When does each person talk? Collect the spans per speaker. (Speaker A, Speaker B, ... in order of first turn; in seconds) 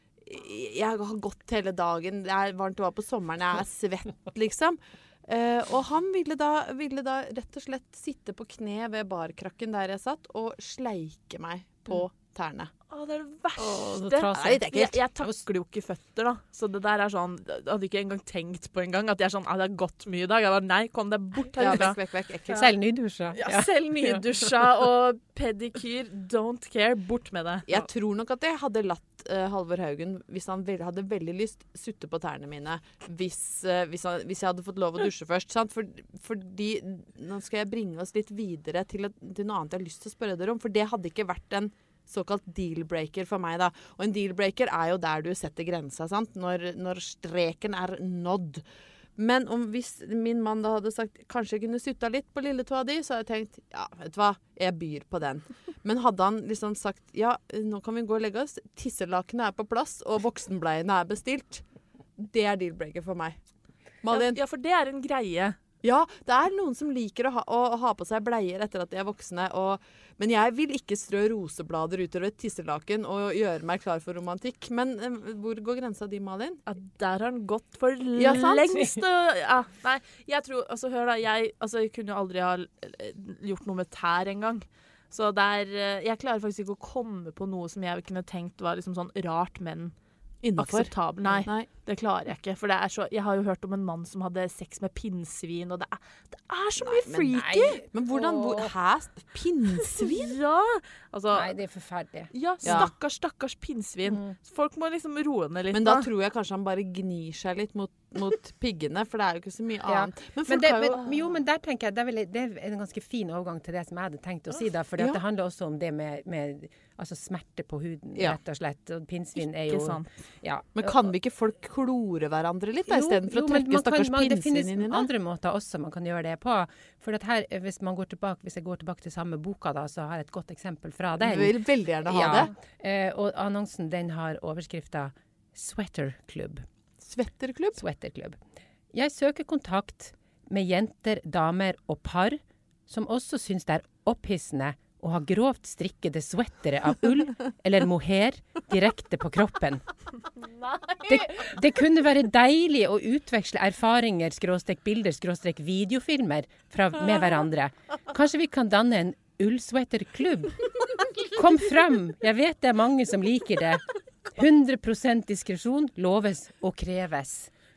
Speaker A: 0.2-12.7, 14.3-15.0, 21.6-22.7, 27.7-61.6, 62.2-63.4, 64.0-64.4, 65.8-76.6, 78.2-78.7, 90.4-91.7, 97.8-100.4, 102.6-102.9, 105.7-111.3, 120.8-125.1, 131.2-132.5, 137.1-137.8
Speaker B: 12.9-22.0, 23.4-27.8, 64.1-65.6, 76.7-89.9, 90.6-97.8, 99.9-101.5, 102.3-106.1, 119.5-120.1
Speaker C: 13.6-15.4, 22.5-24.3, 97.1-98.7, 101.3-102.9, 109.9-121.0, 122.9-136.6, 137.8-138.4, 138.9-149.8, 151.0-167.5